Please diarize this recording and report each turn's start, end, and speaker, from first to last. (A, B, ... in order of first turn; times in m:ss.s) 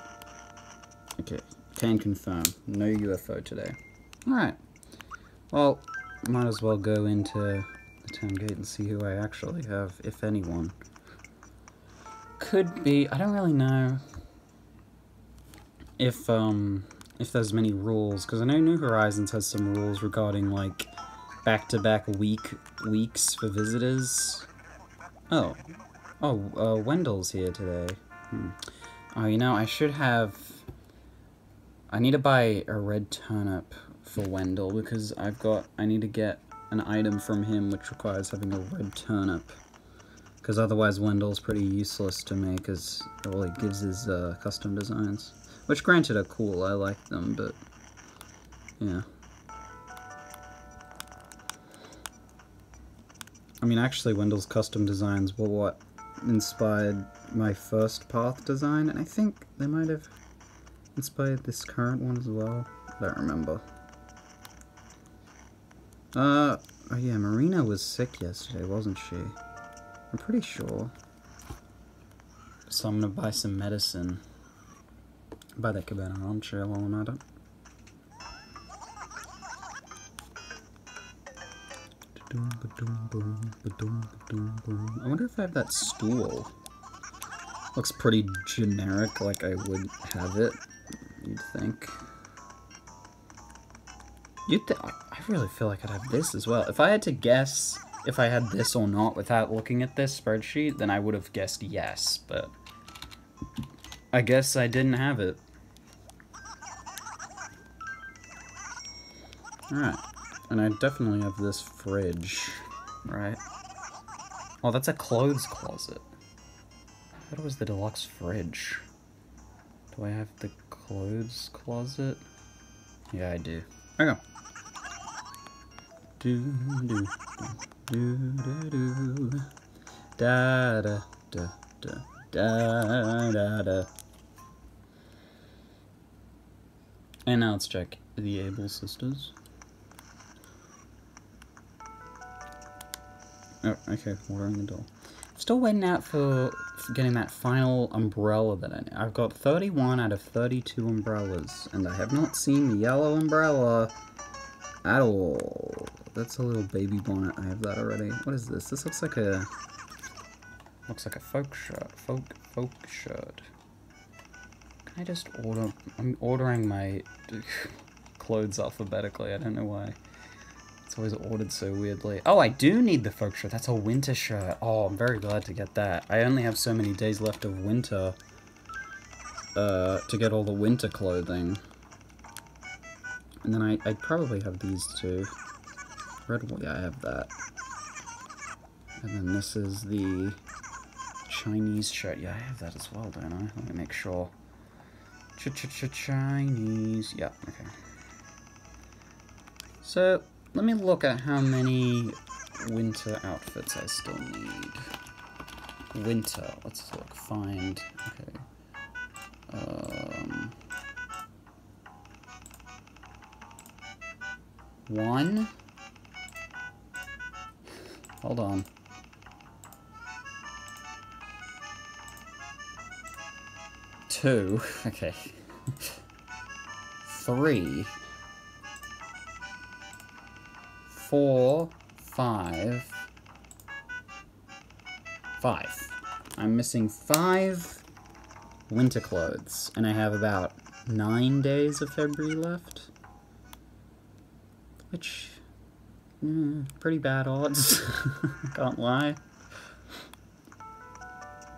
0:01.2-0:04.6 A
0:05.5-0:10.8 A
0:12.4-0:14.0 A
0:16.0-0:20.9 A
0:21.4-0:24.5 A
0:25.3-0:25.6 A
0:26.2-0:30.6 A
0:31.9-0:39.6 A
0:40.4-0:47.6 A
0:48.8-0:49.0 A
0:53.6-1:00.1 A
1:00.9-1:03.6 A
1:06.1-1:09.4 A
1:10.1-1:10.9 A
1:12.7-1:14.2 A
1:15.6-1:17.2 A
1:22.2-1:26.5 A
1:27.7-1:30.6 A
1:31.2-1:32.0 A
1:34.5-1:42.5 A
1:44.1-1:45.4 A
1:49.7-1:53.4 A
1:54.6-1:56.0 A
1:57.3-1:58.8 A
1:59.9-2:02.2 A
2:03.1-2:04.2 A
2:06.2-2:09.5 A
2:10.2-2:13.9 A
2:17.2-2:19.3 A
2:23.6-2:33.9 A
2:34.8-2:39.5 A
2:40.9-2:43.5 A
2:44.9-2:50.0 A
2:50.8-2:58.2 A
2:59.5-3:01.6 A
3:03.4-3:05.3 A
3:06.3-3:07.3 A
3:09.0-3:10.4 A
3:11.3-3:14.3 A
3:15.4-3:17.7 A
3:19.8-3:24.9 A
3:25.9-3:28.4 A
3:29.5-3:30.6 A
3:34.9-3:35.5 A
3:38.2-3:38.7 A
3:44.1-3:45.9 A
3:47.0-3:48.0 A
3:50.9-3:53.0 A
3:55.4-3:57.8 A
3:58.7-4:02.9 A
4:04.9-4:05.4 A
4:06.2-4:09.2 A